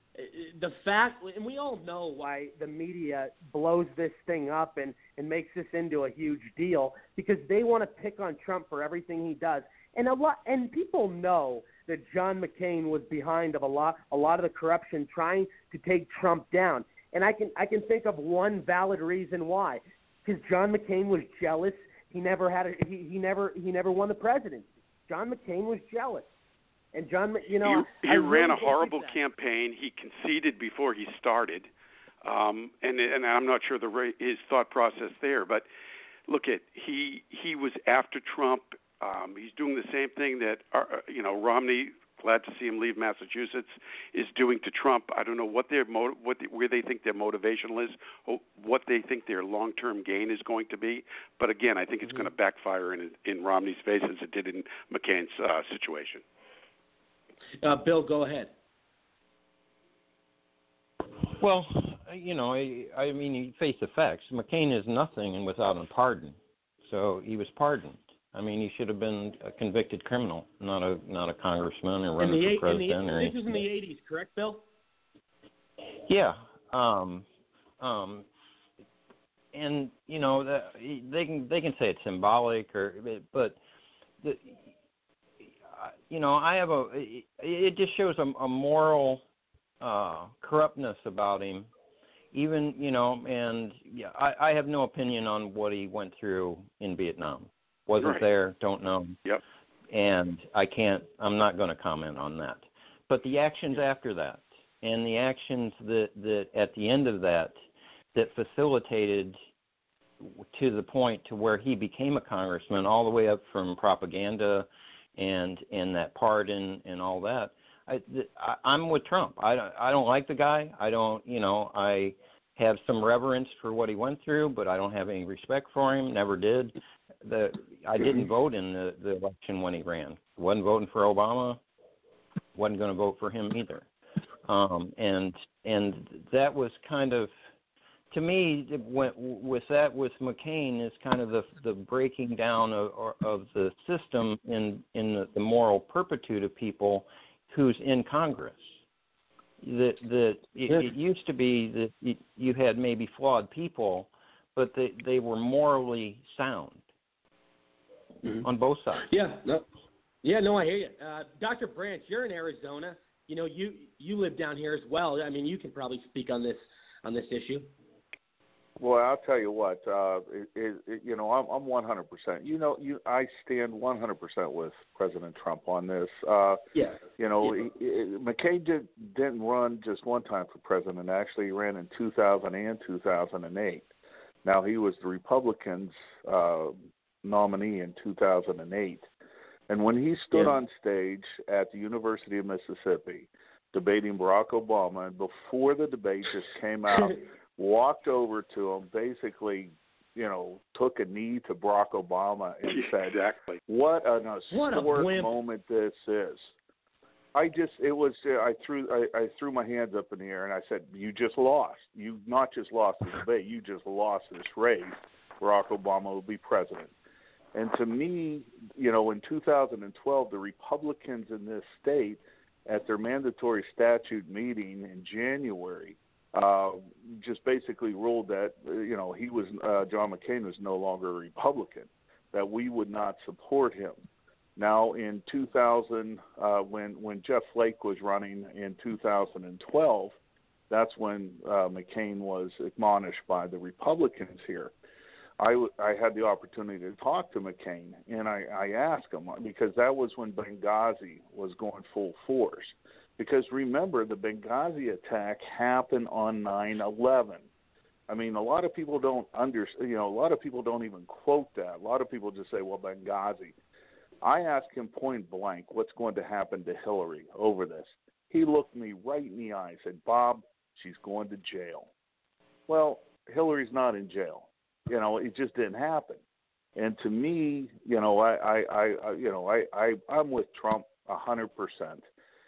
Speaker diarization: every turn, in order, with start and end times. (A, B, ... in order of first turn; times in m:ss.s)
0:00.2-0:26.3 A
0:26.9-0:29.2 A
0:27.9-0:31.7 B
0:32.2-0:35.6 B
0:36.3-0:56.2 B
0:57.6-0:58.5 A
1:01.4-1:13.6 C
1:12.2-1:14.6 A
1:16.0-1:17.2 C
1:17.8-1:18.2 C
1:19.5-1:23.6 C
1:24.2-1:24.6 C
1:25.7-1:29.2 C
1:29.8-1:31.7 C
1:32.3-1:39.2 C
1:39.9-1:47.5 C
1:48.1-1:49.4 C
1:50.2-2:11.6 C
2:12.5-2:13.8 C
2:14.5-2:17.3 C
2:18.1-2:28.8 C
2:29.6-2:36.8 C
2:38.4-2:39.1 C
2:39.0-2:39.6 A
2:40.2-2:47.7 A
2:48.8-2:56.6 D
2:56.7-2:57.5 A
2:57.2-3:03.9 D
3:04.4-3:09.0 D
3:09.7-3:26.5 D
3:10.3-3:10.6 A
3:24.5-3:25.3 A
3:27.3-3:36.9 D
3:37.5-3:54.0 D
3:54.6-4:00.2 D
4:00.7-4:04.7 D
4:05.4-4:17.4 D
4:18.1-4:23.5 D
4:24.2-4:31.9 D
4:32.7-4:36.2 D
4:36.8-4:42.0 D